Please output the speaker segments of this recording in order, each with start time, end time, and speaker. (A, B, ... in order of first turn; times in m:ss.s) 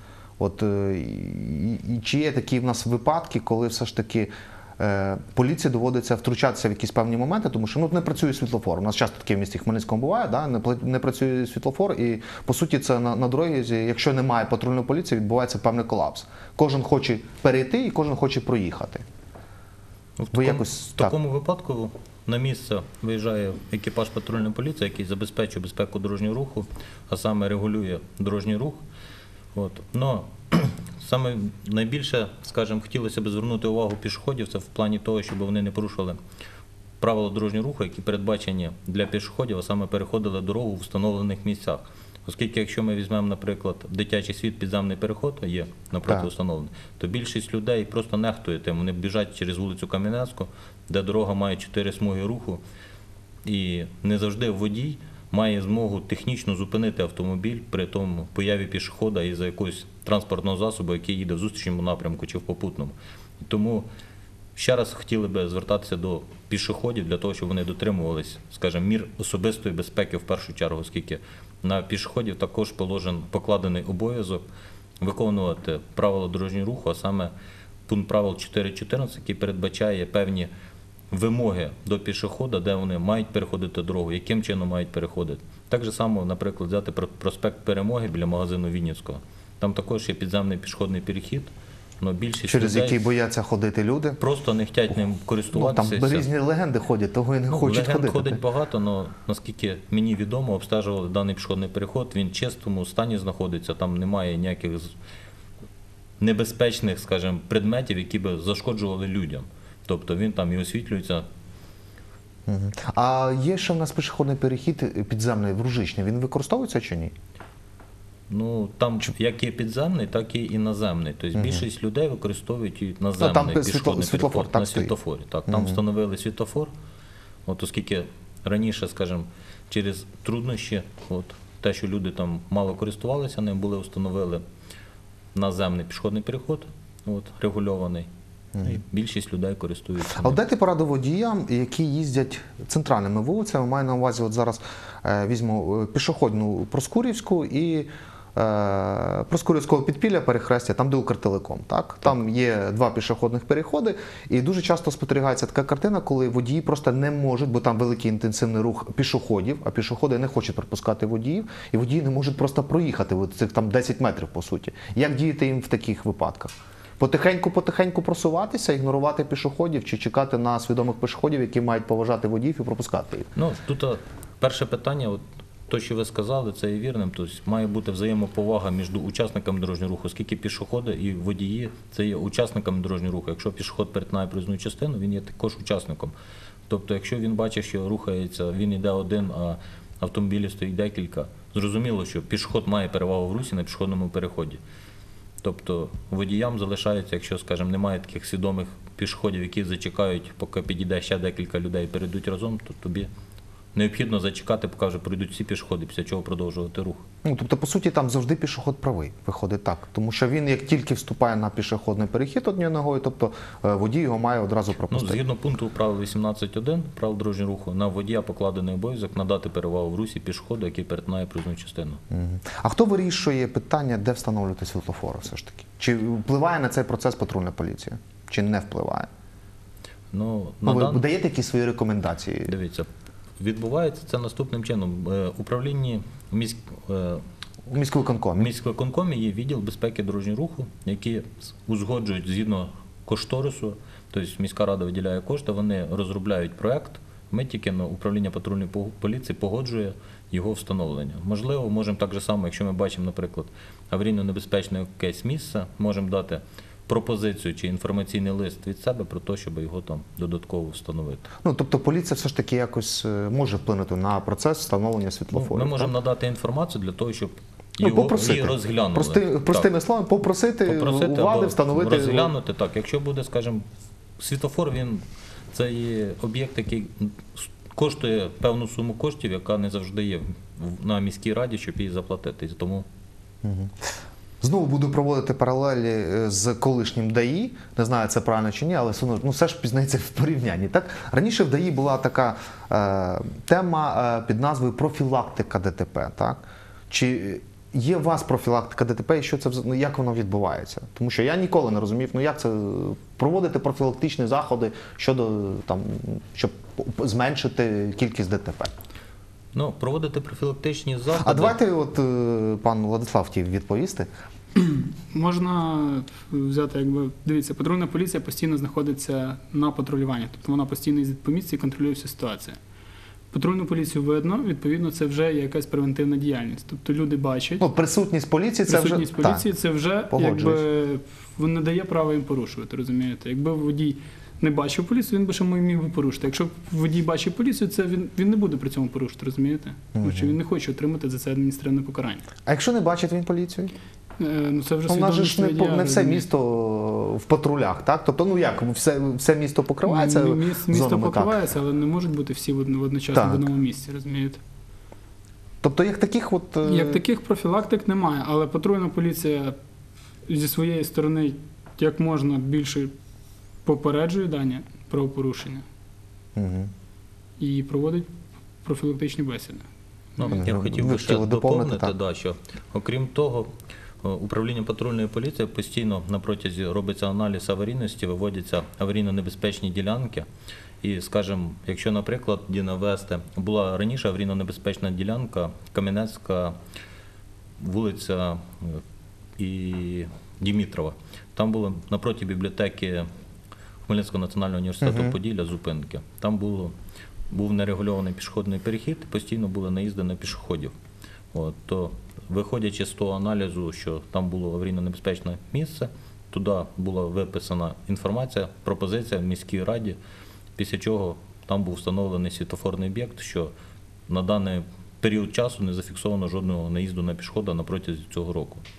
0:00.4-0:19.0 A
0:20.2-0:28.8 B
0:20.3-0:21.2 A
0:29.5-0:36.2 B
0:37.0-0:52.6 B
0:53.4-1:03.9 B
1:04.6-1:14.4 B
1:15.0-1:17.3 B
1:17.9-1:20.5 B
1:21.1-1:33.0 B
1:32.5-1:34.2 A
1:34.2-1:36.3 B
1:35.5-1:38.4 A
1:37.5-1:44.9 B
1:46.2-1:51.3 B
1:52.5-1:57.1 A
1:58.3-2:06.7 B
2:01.3-2:01.6 A
2:03.2-2:04.9 A
2:05.5-2:05.8 A
2:07.4-2:14.4 B
2:15.3-2:18.1 B
2:18.5-2:18.8 A
2:18.6-2:20.4 B
2:20.1-2:53.3 A
2:53.3-3:06.1 B
3:06.7-3:14.6 B
3:15.4-3:23.1 B
3:23.7-3:27.0 B
3:27.2-3:35.2 A
3:34.9-3:42.0 B
3:42.1-3:49.1 A
3:50.1-3:51.0 B
3:50.6-3:52.5 A
3:52.5-3:52.9 B
3:53.4-3:57.2 B
3:57.7-3:58.5 A
3:58.4-4:21.3 B
4:21.4-4:25.9 A
4:25.3-4:29.7 B
4:27.8-4:32.3 A
4:30.6-4:33.6 B
4:34.2-4:42.9 B
4:43.4-5:08.7 A
5:09.5-5:11.6 B
5:11.2-5:14.1 A
5:14.6-5:22.6 C
5:23.3-5:27.6 C
5:27.6-5:29.4 A
5:28.7-5:42.2 C
5:30.1-5:30.6 A
5:40.0-5:40.4 A
5:42.4-5:43.7 A
5:44.2-5:46.2 C
5:44.9-5:51.4 A
5:49.8-5:54.4 C
5:53.1-5:53.4 A
5:55.6-5:57.0 A
5:56.6-5:59.6 C
6:00.3-6:02.9 C
6:03.6-6:05.6 C
6:06.4-6:06.7 A
6:07.4-6:08.1 C
6:08.6-6:09.7 C
6:10.2-6:13.5 B
6:10.3-6:11.9 A
6:14.0-6:20.3 B
6:20.8-6:26.6 B
6:27.6-6:28.8 B
6:29.4-6:33.1 B
6:33.9-6:36.8 B
6:34.8-6:35.2 A
6:37.3-6:40.8 B
6:41.3-6:50.0 B
6:50.6-6:53.5 B
6:54.1-6:58.6 B